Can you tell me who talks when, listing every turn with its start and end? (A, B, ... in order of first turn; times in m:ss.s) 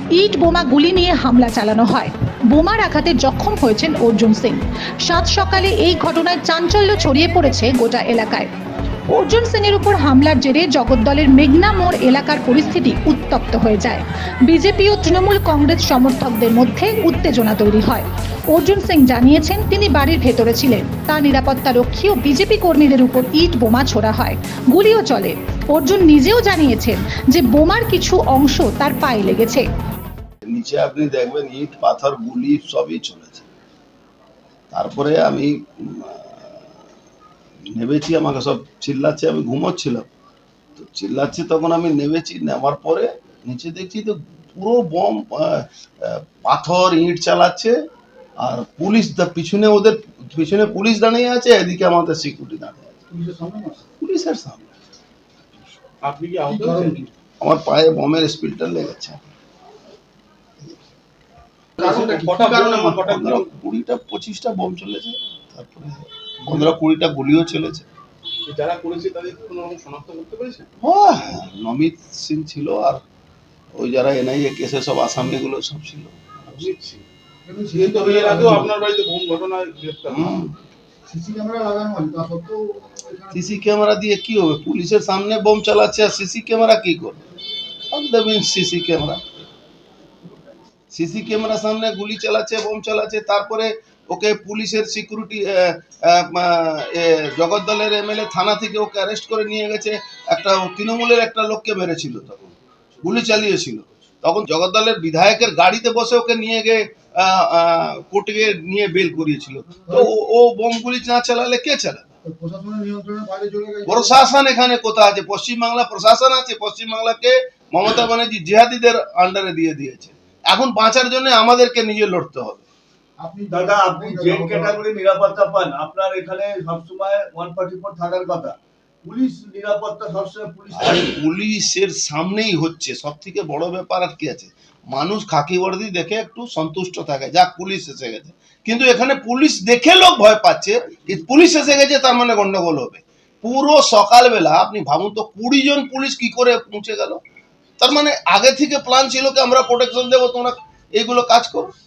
0:00.1-0:08.5 A
0:09.1-0:29.7 A
0:30.5-0:33.5 B
0:34.7-0:36.6 B
0:37.7-0:40.1 B
0:40.8-0:47.7 B
0:48.4-0:52.9 B
0:53.1-0:53.9 C
0:54.0-0:54.7 B
0:56.0-0:57.1 D
0:56.5-0:57.0 C
0:57.4-0:59.2 B
1:01.8-1:02.6 C
1:01.8-1:03.5 D
1:02.6-1:07.9 B
1:06.4-1:06.7 D
1:08.4-1:10.7 D
1:10.8-1:13.0 B
1:13.7-1:16.7 B
1:16.4-1:17.0 D
1:17.4-1:18.7 C
1:17.7-1:20.4 D
1:20.1-1:20.5 B
1:21.1-1:23.6 C
1:23.3-1:27.2 B
1:27.9-1:29.2 B
1:30.9-1:42.5 B
1:43.0-1:52.1 B
1:52.2-1:54.2 C
1:53.9-2:02.6 B
2:03.2-2:04.8 C
2:03.5-2:11.1 E
2:10.7-2:27.2 B
2:27.8-2:31.7 B